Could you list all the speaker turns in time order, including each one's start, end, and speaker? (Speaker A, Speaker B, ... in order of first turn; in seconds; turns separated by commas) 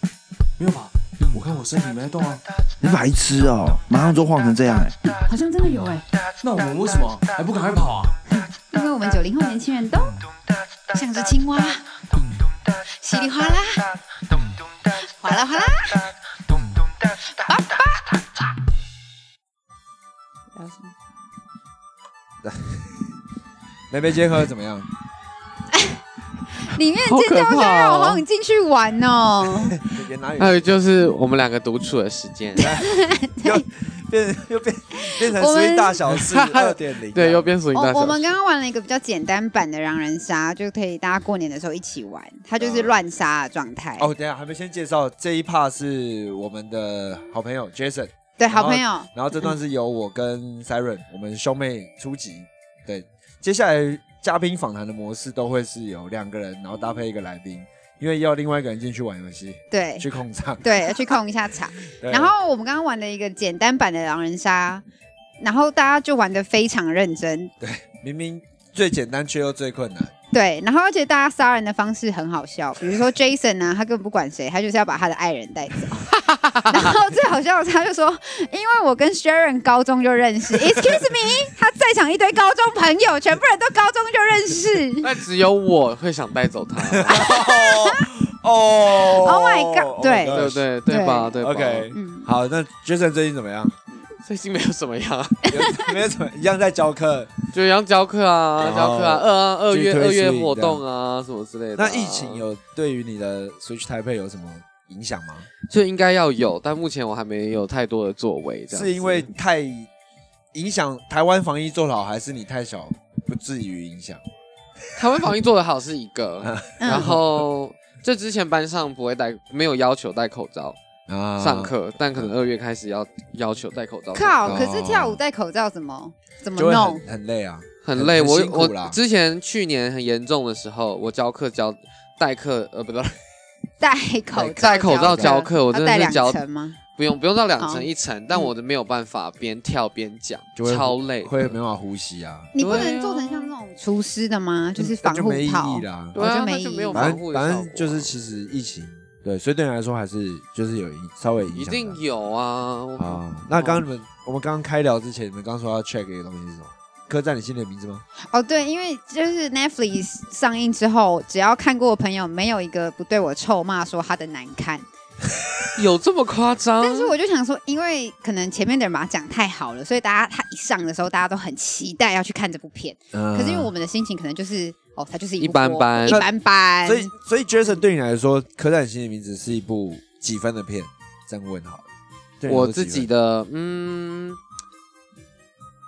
Speaker A: 0.6-2.4, Speaker B: 2.8-5.1, Speaker C: 5.3-6.0, Speaker A: 6.4-8.2, Speaker C: 8.3-10.3, Speaker C: 10.9-11.9, Speaker C: 12.9-13.9, Speaker C: 15.0-16.1, Speaker C: 17.4-18.1, Speaker C: 20.6-20.9, Speaker D: 22.4-23.1, Speaker D: 23.9-24.9, Speaker C: 25.7-26.0, Speaker C: 26.6-29.8, Speaker E: 27.0-28.2, Speaker D: 29.8-30.8, Speaker E: 30.4-32.7, Speaker C: 32.6-33.6, Speaker D: 32.6-37.5, Speaker C: 34.9-36.0, Speaker E: 36.1-38.4, Speaker C: 37.7-44.1, Speaker D: 42.6-43.0, Speaker D: 44.0-61.2, Speaker C: 48.4-49.1, Speaker C: 59.7-60.1, Speaker C: 60.6-64.8, Speaker D: 62.0-62.3, Speaker C: 65.4-67.5, Speaker D: 67.6-70.1, Speaker C: 70.3-85.1, Speaker E: 76.1-76.9, Speaker E: 85.0-87.2, Speaker D: 86.9-90.7, Speaker C: 87.1-88.0, Speaker C: 89.1-91.4, Speaker E: 90.3-91.9, Speaker D: 91.3-93.8, Speaker C: 91.9-92.3, Speaker E: 94.2-95.5, Speaker D: 95.5-97.3, Speaker C: 95.6-95.9, Speaker E: 97.5-102.4, Speaker D: 98.6-100.8, Speaker D: 101.8-105.5, Speaker E: 105.7-109.3, Speaker D: 108.7-109.9, Speaker D: 110.5-114.2, Speaker E: 115.0-120.8, Speaker D: 116.4-117.3, Speaker C: 116.8-117.2, Speaker D: 121.1-122.3, Speaker E: 121.4-124.6, Speaker C: 124.1-127.0, Speaker D: 124.4-125.2, Speaker D: 126.5-129.0, Speaker E: 127.8-133.2, Speaker C: 133.8-136.8, Speaker D: 134.3-135.4, Speaker E: 134.6-141.6, Speaker C: 137.6-138.5, Speaker D: 140.6-142.9, Speaker C: 142.5-147.2, Speaker E: 142.6-143.5, Speaker D: 144.8-146.2, Speaker E: 146.1-148.2, Speaker D: 146.9-152.0, Speaker E: 151.6-153.8, Speaker D: 153.0-158.0, Speaker C: 158.3-164.9, Speaker E: 165.8-167.1, Speaker C: 166.8-177.1, Speaker D: 173.1-173.7, Speaker E: 175.4-176.2, Speaker D: 176.1-181.9, Speaker D: 182.4-183.1, Speaker E: 182.5-184.4